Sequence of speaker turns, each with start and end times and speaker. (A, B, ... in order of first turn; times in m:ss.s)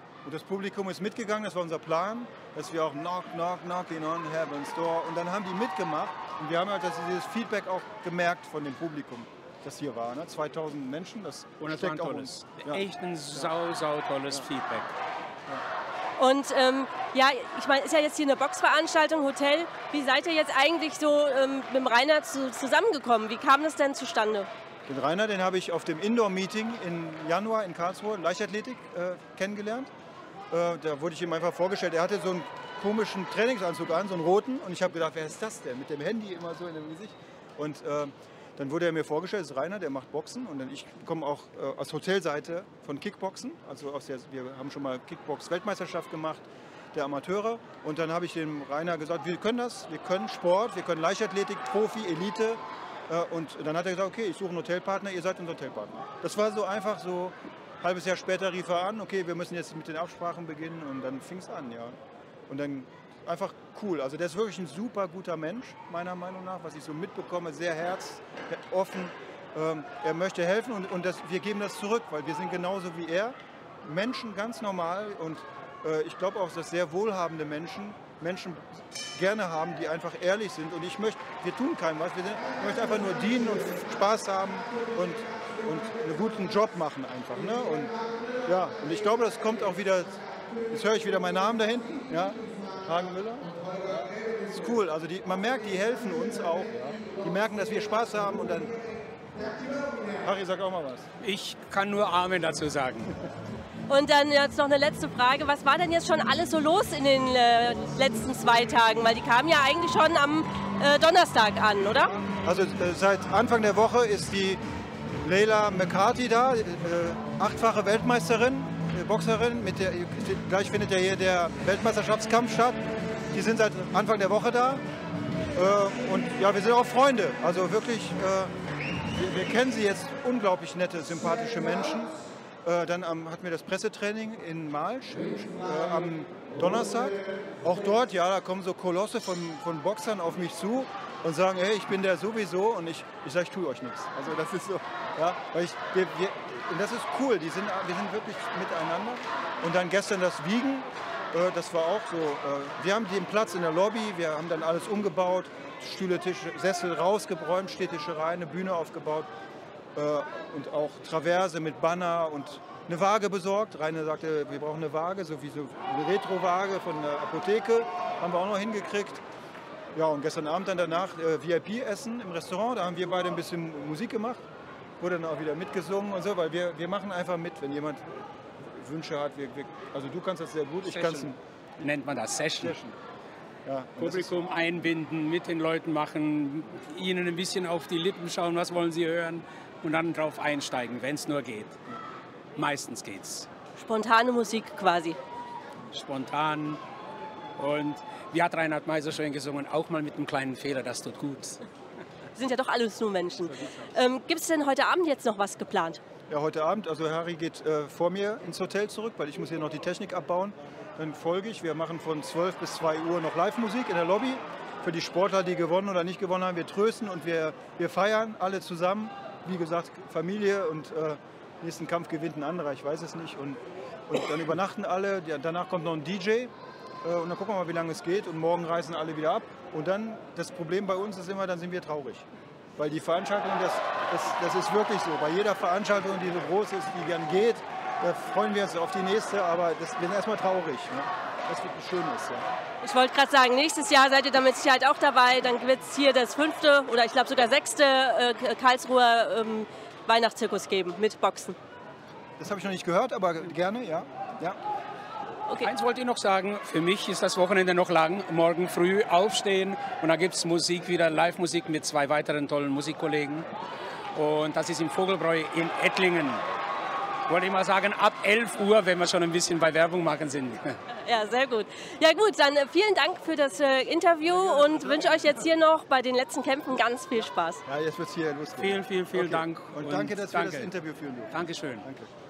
0:00.2-0:13.5 A
0:11.6-0:14.9 B
0:16.2-0:24.5 C
0:24.9-0:29.9 A
0:30.5-1:02.0 A
1:02.5-1:27.9 A
1:28.5-1:38.8 A
1:39.4-1:41.1 A
1:41.2-1:43.2 B
1:43.9-1:52.1 C
1:52.4-1:54.6 A
1:55.2-2:02.8 A
2:03.3-2:04.8 A
2:05.6-2:08.5 A
2:09.1-2:12.1 A
2:12.6-2:39.3 A
2:40.0-2:49.2 A
2:49.9-2:54.4 A
2:55.0-2:58.0 A
2:58.7-3:01.4 A
3:00.9-3:02.8 B
3:02.6-3:03.0 A
3:03.7-3:04.4 A
3:04.0-3:11.8 B
3:12.6-3:13.5 B
3:13.8-3:15.2 C
3:15.9-3:16.8 B
3:17.6-3:21.6 B
3:22.4-3:26.0 C
3:26.3-3:46.5 A
3:47.0-3:52.3 A
3:52.8-4:02.5 A
4:02.8-4:11.6 C
4:12.4-4:14.6 A
4:15.6-4:23.5 B
4:24.2-4:26.4 B
4:27.3-4:30.8 B
4:31.0-4:37.6 C
4:34.4-4:35.3 A
4:37.7-4:42.1 A
4:38.6-4:40.7 B
4:41.3-4:41.9 B